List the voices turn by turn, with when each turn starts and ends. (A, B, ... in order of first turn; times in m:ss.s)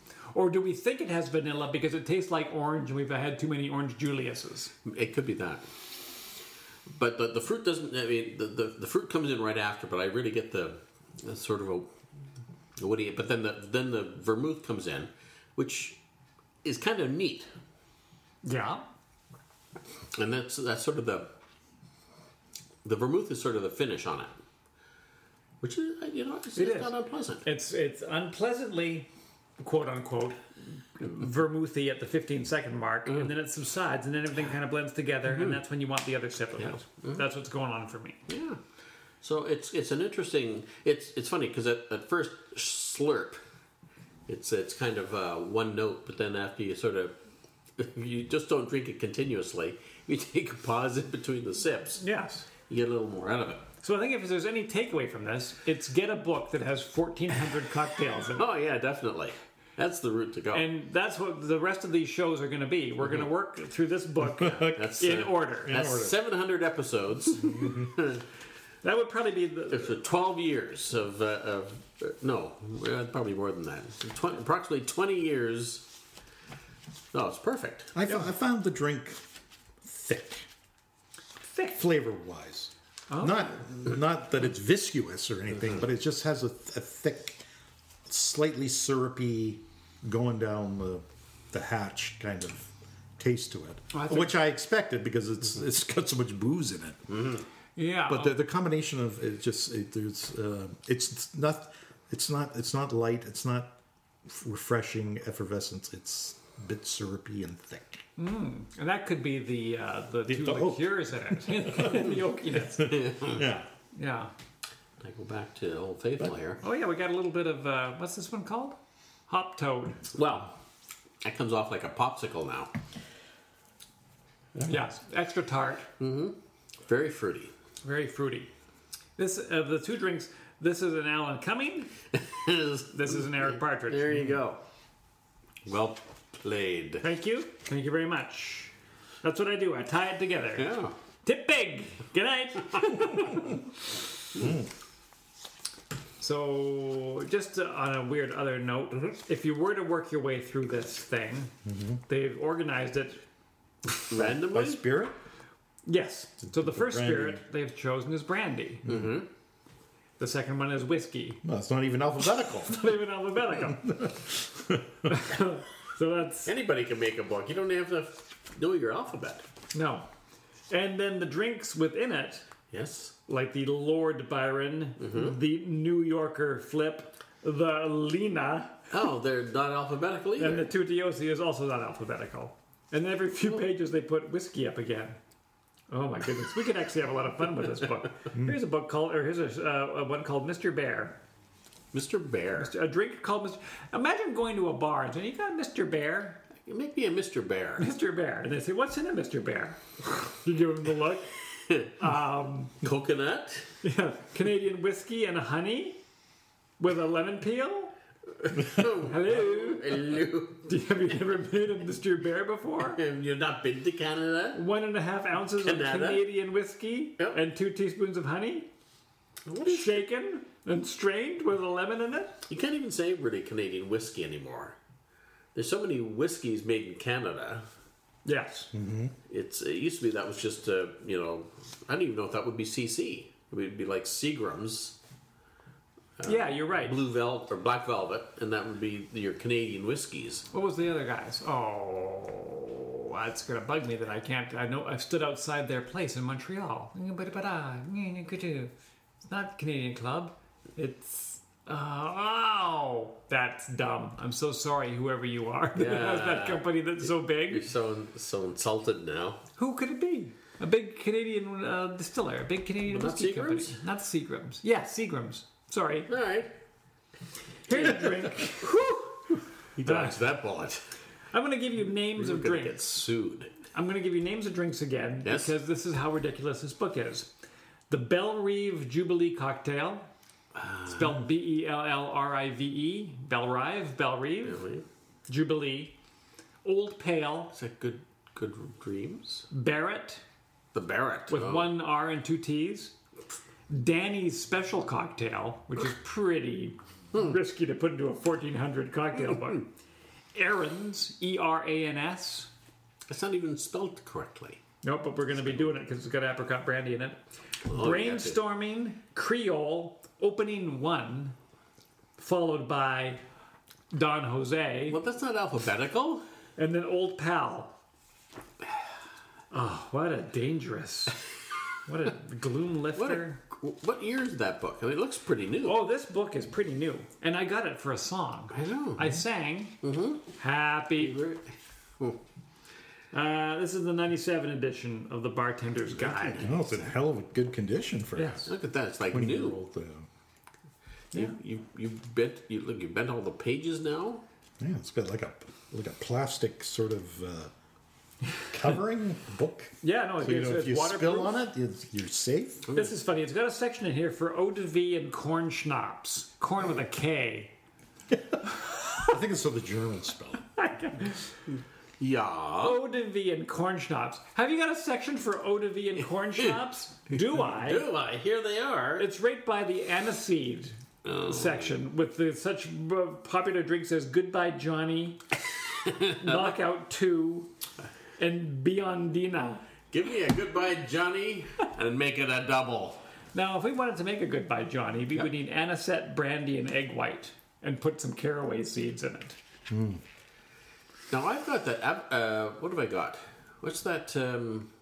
0:00.3-0:04.7 A
0:04.8-0:05.7 B
0:07.0-0:11.9 B
0:12.8-0:16.0 B
0:16.6-0:17.5 B
0:18.4-0:18.8 A
0:20.2-0:21.3 B
0:22.8-0:24.3 B
0:25.6-0:27.4 B
0:26.6-0:29.1 A
0:29.6-0:30.4 A
0:31.0-0:38.2 A
0:35.3-0:35.6 B
0:36.6-0:37.2 B
0:38.3-0:38.6 B
0:39.2-0:43.4 B
0:44.3-0:47.1 B
0:47.8-0:52.0 B
0:52.0-0:52.5 A
0:52.7-0:53.7 B
0:53.8-0:58.5 A
0:58.4-1:00.6 B
1:00.5-1:05.9 A
1:04.4-1:08.2 B
1:04.4-1:04.7 C
1:05.7-1:06.1 C
1:08.8-1:10.0 A
1:09.7-1:15.9 B
1:17.1-1:17.9 B
1:17.9-1:19.2 C
1:19.8-1:20.5 C
1:21.5-1:21.8 A
1:21.7-1:27.4 C
1:23.1-1:23.5 A
1:28.1-1:37.0 C
1:33.9-1:34.4 A
1:37.1-1:37.4 B
1:37.8-1:38.4 A
1:38.1-1:43.7 C
1:44.3-1:48.0 C
1:48.2-1:53.0 A
1:50.3-1:52.1 C
1:52.9-1:53.4 B
1:53.2-1:53.7 C
1:53.9-1:54.3 A
1:55.0-1:56.6 B
1:56.6-1:58.8 A
1:59.3-2:00.0 A
2:00.1-2:00.5 B
2:01.2-2:02.7 B
2:04.6-2:04.8 C
2:04.7-2:05.9 A
2:06.0-2:07.5 B
2:07.8-2:08.5 A
2:09.2-2:11.9 A
2:12.2-2:14.6 B
2:12.9-2:14.2 A
2:15.7-2:17.0 B
2:17.0-2:18.7 A
2:19.2-2:23.7 A
2:20.6-2:21.0 B
2:26.2-2:31.5 A
2:31.7-2:32.0 C
2:32.1-2:33.2 A
2:34.1-2:34.8 B
2:34.1-2:35.1 C
2:35.9-2:38.8 A
2:36.5-2:37.4 C
2:38.8-2:39.3 B
2:40.2-2:41.4 A
2:41.4-2:42.9 C
2:42.5-2:44.1 A
2:43.8-2:45.1 C
2:45.1-2:46.5 A
2:46.4-2:49.4 B
2:49.7-2:50.1 A
2:50.7-2:52.4 A
2:52.7-2:53.1 B
2:53.3-2:58.8 A
2:55.0-2:55.4 B
2:58.9-3:00.7 B
3:00.4-3:05.2 A
3:05.9-3:11.2 A
3:11.9-3:12.7 B
3:12.6-3:16.4 A
3:16.6-3:17.9 B
3:17.8-3:21.3 A
3:21.6-3:21.9 B
3:22.0-3:22.7 A
3:22.8-3:23.7 B
3:23.8-3:26.0 A
3:26.8-3:27.9 A
3:28.4-3:30.7 B
3:28.8-3:33.0 A
3:32.9-3:34.6 B
3:34.6-3:38.7 A
3:35.6-3:36.3 B
3:39.5-3:40.0 B
3:39.7-3:42.4 A
3:42.5-3:44.8 B
3:45.6-3:47.7 B
3:48.2-3:48.7 A
3:48.7-3:49.1 C
3:49.3-3:55.0 B
3:56.2-4:00.5 B
3:56.3-3:57.0 A
4:00.5-4:08.7 A
4:09.3-4:17.7 A
4:15.8-4:19.4 B
4:19.6-4:26.1 A
4:22.9-4:23.8 B
4:26.1-4:26.5 B
4:27.7-4:30.2 A
4:27.7-4:28.3 B
4:29.8-4:30.8 B
4:31.3-4:33.0 A
4:32.2-4:33.5 B
4:33.7-4:37.3 A
4:35.2-4:35.5 B
4:37.9-4:40.1 A
4:40.6-4:41.2 B
4:40.9-4:44.6 A
4:44.4-4:44.8 B
4:45.3-4:45.9 A
4:46.6-4:47.5 A
4:47.5-4:49.4 B
4:49.5-4:50.2 A
4:50.7-4:51.7 B
4:51.3-4:52.9 A
4:53.7-4:59.7 A
5:00.3-5:02.5 A
5:03.1-5:04.6 B
5:04.8-5:11.4 A
5:07.7-5:08.4 B
5:12.2-5:13.2 A
5:13.9-5:15.0 A
5:14.9-5:16.2 B
5:16.6-5:17.7 A
5:19.5-5:21.2 A
5:21.9-5:23.4 A
5:23.0-5:25.8 B
5:25.6-5:29.8 A
5:28.5-5:29.2 B
5:29.8-5:30.2 B
5:30.4-5:31.2 A
5:31.0-5:32.2 B
5:33.1-5:36.5 A
5:36.0-5:36.9 B
5:36.4-5:38.5 C
5:38.2-5:38.5 A
5:38.5-5:39.6 B
5:39.1-5:40.1 C
5:41.1-5:44.2 B
5:44.6-5:47.5 C
5:48.5-5:52.7 C
5:49.8-5:51.5 A
5:52.7-5:53.0 B
5:52.7-5:57.5 A
5:59.0-6:00.4 C
6:00.6-6:01.3 A
6:01.5-6:02.8 B
6:02.6-6:07.9 A
6:07.1-6:09.1 B
6:09.0-6:15.2 A
6:11.0-6:11.7 B
6:15.8-6:16.5 B
6:16.1-6:17.5 A
6:18.2-6:19.6 A
6:19.9-6:23.0 B
6:23.3-6:29.4 A
6:29.7-6:30.0 C
6:31.1-6:34.7 B